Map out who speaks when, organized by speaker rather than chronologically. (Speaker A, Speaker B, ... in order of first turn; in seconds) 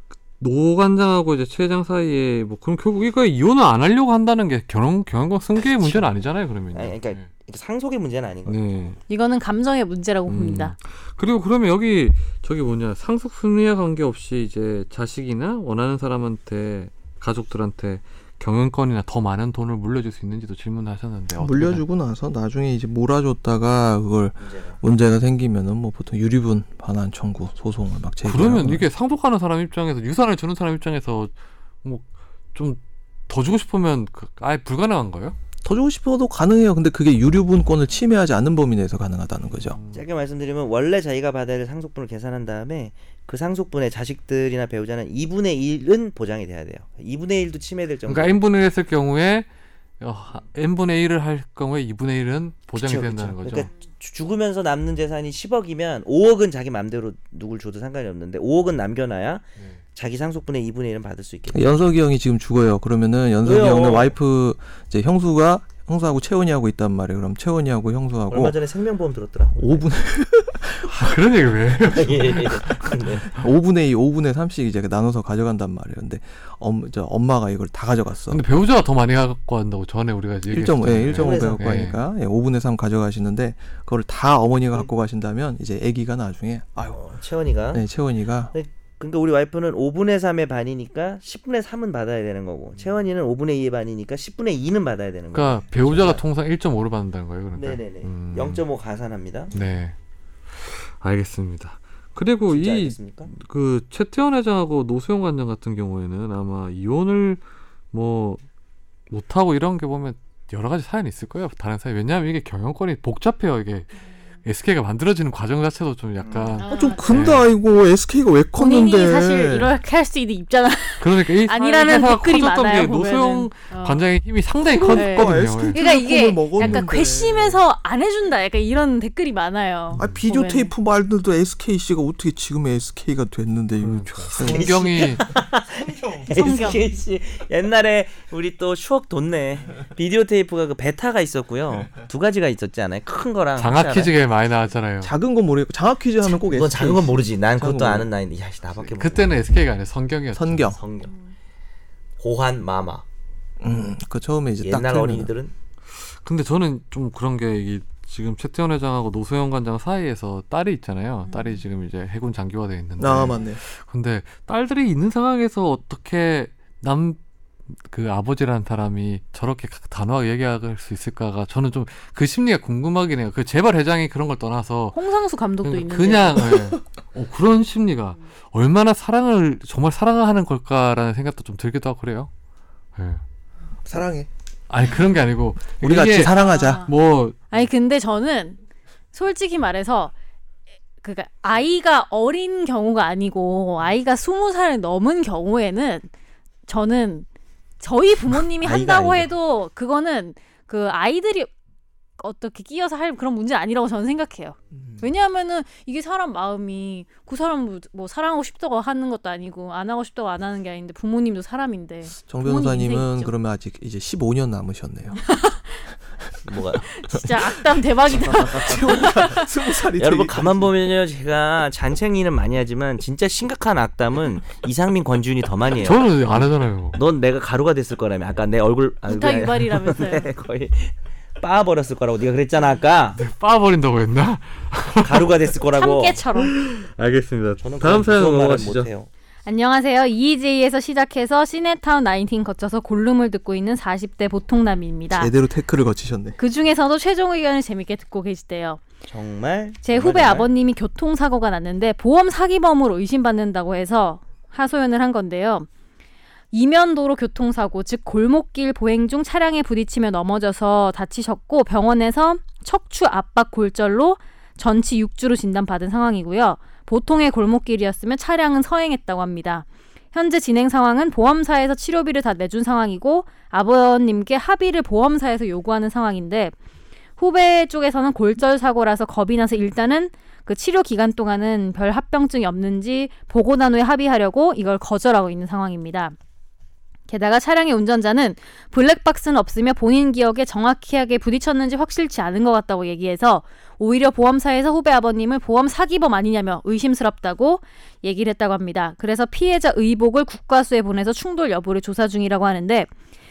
Speaker A: 0.4-7.2, 8.5-9.0, 10.3-21.8, 28.2-35.4, 39.6-40.0, 48.0-49.5, 50.0-53.7, 70.9-72.8, 78.3-82.0, 95.3-98.6, 99.5-99.9, 100.6-108.4, 109.1-117.5, 121.0-125.8, 126.6-126.9, 130.0-130.2, 133.8-135.2, 143.6-145.1, 149.0-150.7, 156.2-167.2, 167.8-175.0, 175.6-182.3, 183.0-183.2, 184.7-187.4, 225.8-227.0, 233.2-235.5, 236.4-238.9
Speaker B: 6.7-8.6, 24.4-24.8, 39.9-48.4, 52.8-59.4, 59.9-61.9, 63.4-64.1, 68.3-69.9, 71.9-73.3, 81.1-81.7, 86.9-87.8, 88.5-96.2, 97.5-99.5, 102.5-103.3, 116.2-116.7, 134.4-144.1, 146.3-149.3, 150.7-151.1, 152.2-153.0, 154.6-155.5, 198.6-199.3, 216.4-216.9, 220.0-233.2, 235.0-236.2, 237.6-239.1, 249.1-250.5
Speaker C: 9.1-10.8, 116.6-117.0, 118.6-124.0, 124.9-130.7, 136.3-136.9, 161.2-161.6, 174.9-176.5, 186.3-186.9, 187.5-188.6, 189.1-190.1, 191.0-196.1, 196.7-197.2, 197.8-201.5, 202.2-213.3, 215.2-215.8, 216.8-219.5, 229.1-230.3, 235.8-236.5, 239.5-245.3, 246.4-248.8, 249.8-255.7, 256.5-276.5, 277.2-286.1, 287.1-302.9
Speaker D: 21.4-28.9, 35.6-39.8, 61.5-68.5, 69.5-71.2, 73.2-78.4, 80.5-87.0, 87.7-88.5, 116.7-119.7, 124.6-127.6, 129.9-134.9, 145.0-148.1, 150.3-150.8, 153.6-155.3, 163.0-163.6, 183.8-184.3, 185.8-186.8, 212.1-215.2, 217.1-220.7, 245.1-246.4